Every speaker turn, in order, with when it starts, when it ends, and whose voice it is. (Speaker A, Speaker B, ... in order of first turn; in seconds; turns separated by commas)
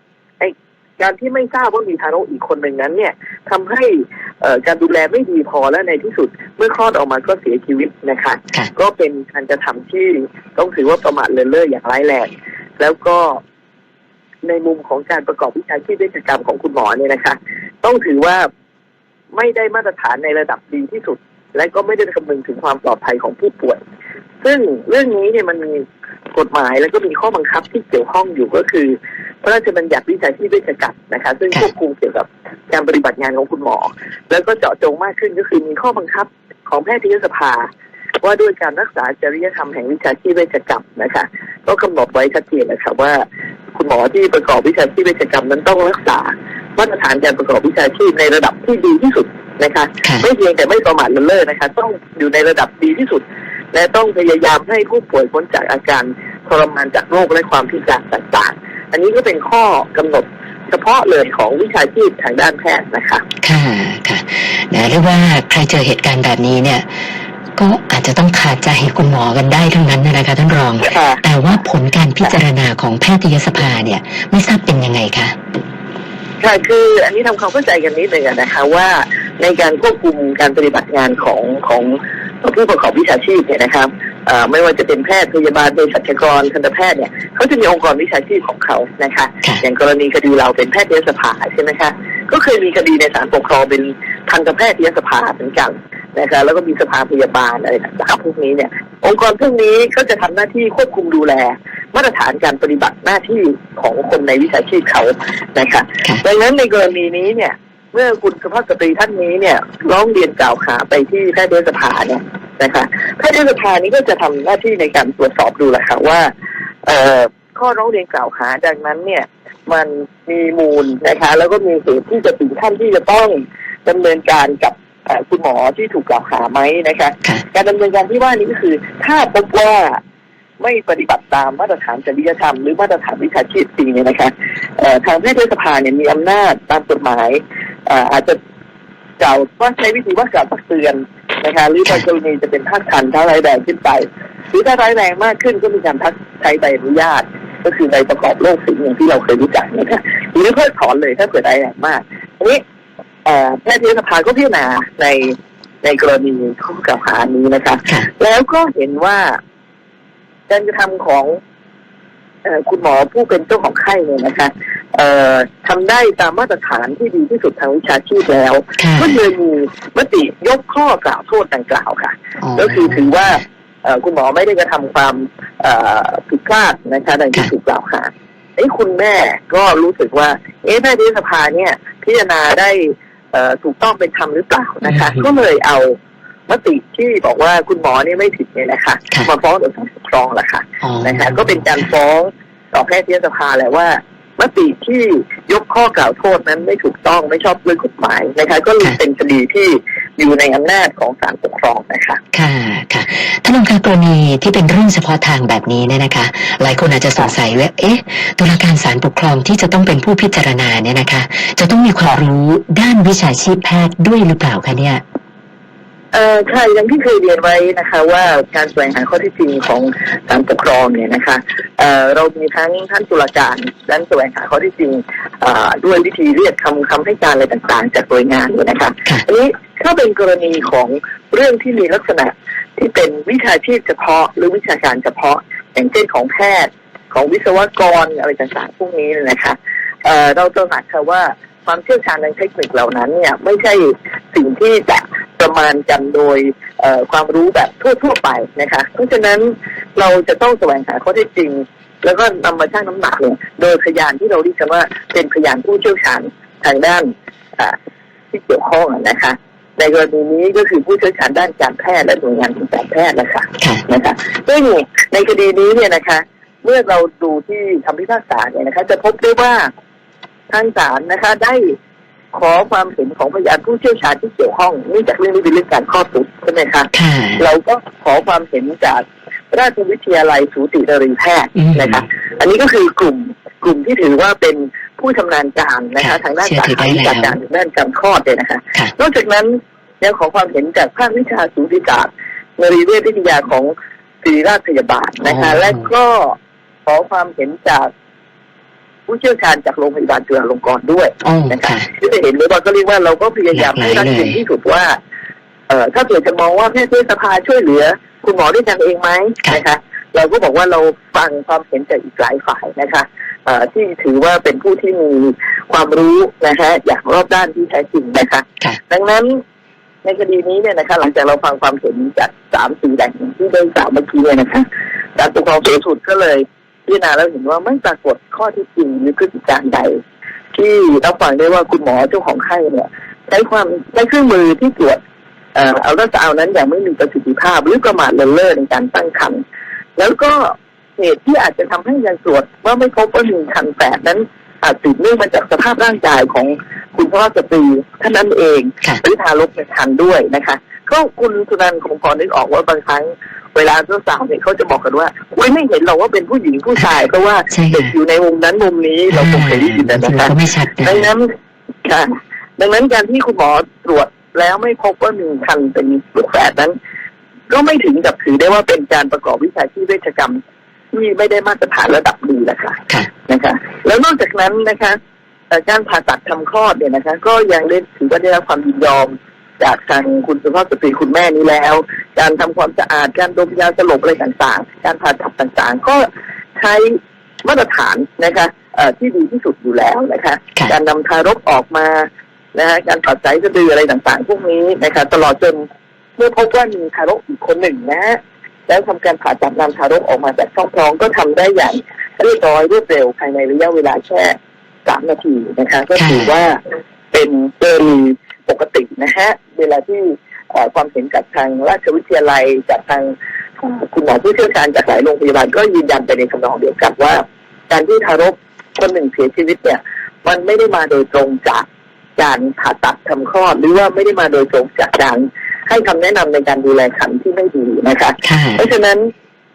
Speaker A: 0.4-13.4, Speaker A: 14.4-18.5, Speaker A: 19.3-23.8, Speaker A: 24.4-37.7, Speaker A: 38.2-63.2, Speaker B: 63.4-66.8, Speaker B: 67.6-75.3, Speaker A: 70.8-71.2, Speaker A: 76.4-116.3, Speaker A: 116.8-130.0, Speaker A: 130.6-138.4, Speaker A: 139.2-152.6, Speaker A: 153.2-159.4, Speaker A: 160.5-161.4, Speaker A: 162.4-185.9, Speaker B: 168.8-169.2, Speaker B: 172.4-173.4, Speaker B: 184.9-185.3, Speaker A: 186.5-202.2, Speaker B: 190.8-191.7, Speaker B: 202.3-215.0, Speaker A: 216.1-257.8, Speaker A: 258.3-269.7, Speaker A: 270.5-271.8, Speaker A: 272.3-293.7, Speaker B: 276.9-277.4, Speaker B: 281.6-282.1, Speaker B: 286.0-287.4, Speaker A: 294.2-297.9, Speaker B: 295.2-295.9, Speaker A: 299.1-305.0, Speaker B: 301.2-301.9, Speaker B: 303.5-304.4, Speaker A: 305.7-319.4, Speaker A: 320.0-330.0, Speaker A: 330.5-335.0, Speaker A: 335.6-339.4, Speaker A: 340.0-361.3, Speaker B: 357.5-357.9, Speaker B: 359.1-361.1, Speaker A: 361.8-366.8, Speaker A: 367.5-370.4, Speaker A: 370.9-375.0, Speaker A: 375.5-386.1, Speaker A: 386.6-395.6, Speaker A: 396.2-406.6, Speaker B: 405.9-406.3, Speaker A: 407.1-421.7, Speaker A: 422.2-429.1, Speaker B: 428.2-428.6